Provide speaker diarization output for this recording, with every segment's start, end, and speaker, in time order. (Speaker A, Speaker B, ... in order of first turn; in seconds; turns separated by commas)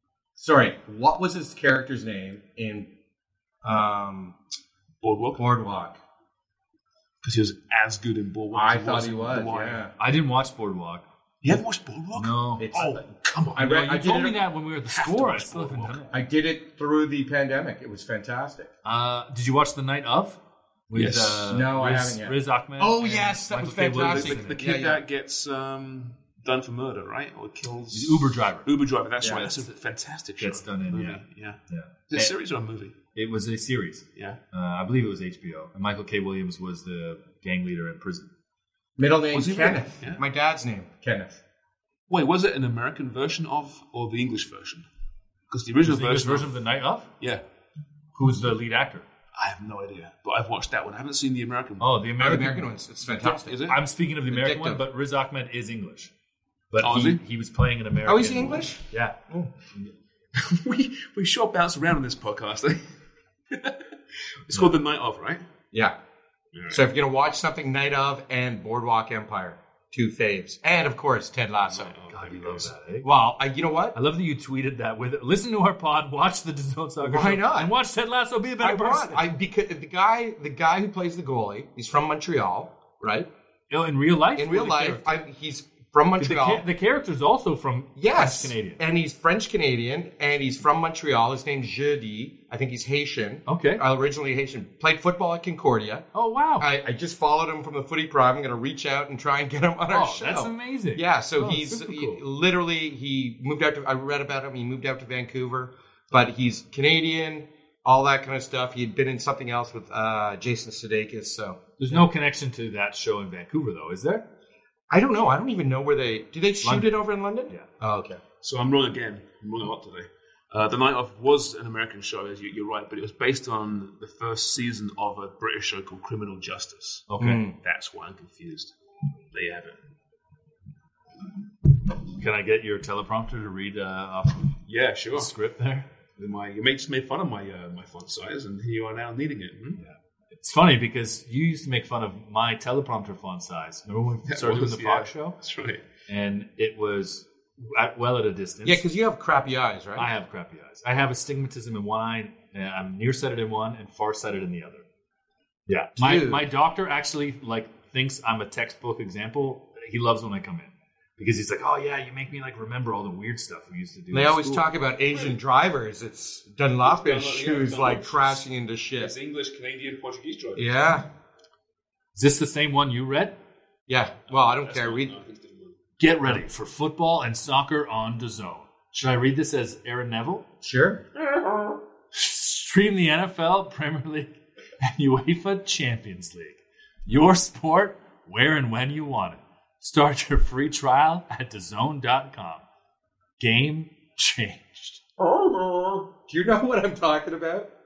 Speaker A: 0.4-2.9, Speaker A: 3.6-4.3, Speaker B: 5.0-5.4, Speaker A: 5.3-6.0, Speaker B: 7.2-9.8, Speaker A: 8.5-9.9, Speaker C: 10.0-11.0, Speaker B: 11.4-14.0, Speaker C: 12.1-12.8, Speaker A: 12.6-13.0, Speaker A: 13.6-14.4, Speaker C: 13.6-16.1, Speaker B: 14.9-16.0, Speaker A: 16.1-18.7, Speaker C: 18.8-20.4, Speaker C: 20.9-24.6, Speaker B: 20.9-21.6, Speaker A: 21.4-25.0, Speaker B: 24.0-32.9, Speaker C: 27.9-28.7, Speaker A: 29.2-29.4, Speaker C: 30.4-32.3, Speaker C: 33.1-38.3, Speaker B: 34.1-34.4, Speaker A: 39.0-41.4, Speaker B: 39.3-40.2, Speaker B: 42.1-44.9, Speaker B: 45.5-46.5, Speaker C: 45.8-47.1, Speaker C: 48.1-49.0, Speaker B: 49.3-52.0, Speaker C: 51.8-52.7, Speaker A: 52.2-53.7, Speaker B: 53.2-53.8, Speaker C: 53.2-56.1, Speaker A: 54.3-54.8, Speaker C: 56.7-59.1, Speaker B: 56.8-57.2, Speaker A: 58.0-59.5, Speaker B: 60.3-62.8, Speaker B: 63.5-65.4, Speaker B: 66.5-66.8, Speaker A: 66.7-71.9, Speaker B: 71.6-72.7, Speaker C: 72.1-73.1, Speaker A: 73.0-74.0, Speaker C: 73.9-79.2, Speaker A: 77.0-77.7, Speaker A: 78.6-83.3, Speaker C: 83.7-85.2, Speaker A: 84.4-86.6, Speaker C: 86.2-88.8, Speaker A: 88.0-112.0, Speaker C: 93.5-93.8, Speaker C: 96.1-96.7, Speaker C: 99.9-102.2, Speaker C: 111.8-114.2, Speaker A: 114.9-118.2, Speaker C: 116.6-117.7, Speaker B: 118.4-127.1, Speaker C: 127.1-127.4, Speaker A: 127.2-127.5, Speaker B: 127.6-128.7, Speaker B: 129.3-129.8, Speaker C: 132.1-134.6, Speaker B: 134.6-135.3, Speaker C: 135.1-135.9, Speaker B: 136.2-139.8, Speaker C: 139.8-145.4, Speaker B: 144.2-145.8, Speaker C: 146.1-148.8, Speaker A: 148.6-150.1, Speaker C: 149.9-154.8, Speaker C: 155.7-164.6, Speaker A: 156.0-156.4, Speaker A: 164.1-169.1, Speaker B: 166.8-168.4, Speaker B: 169.0-170.8, Speaker A: 170.6-171.1, Speaker C: 172.2-173.4, Speaker A: 173.9-175.1, Speaker B: 174.3-175.8, Speaker C: 176.0-180.5, Speaker A: 180.6-181.1, Speaker C: 182.1-192.6, Speaker C: 193.4-195.0, Speaker A: 195.2-197.7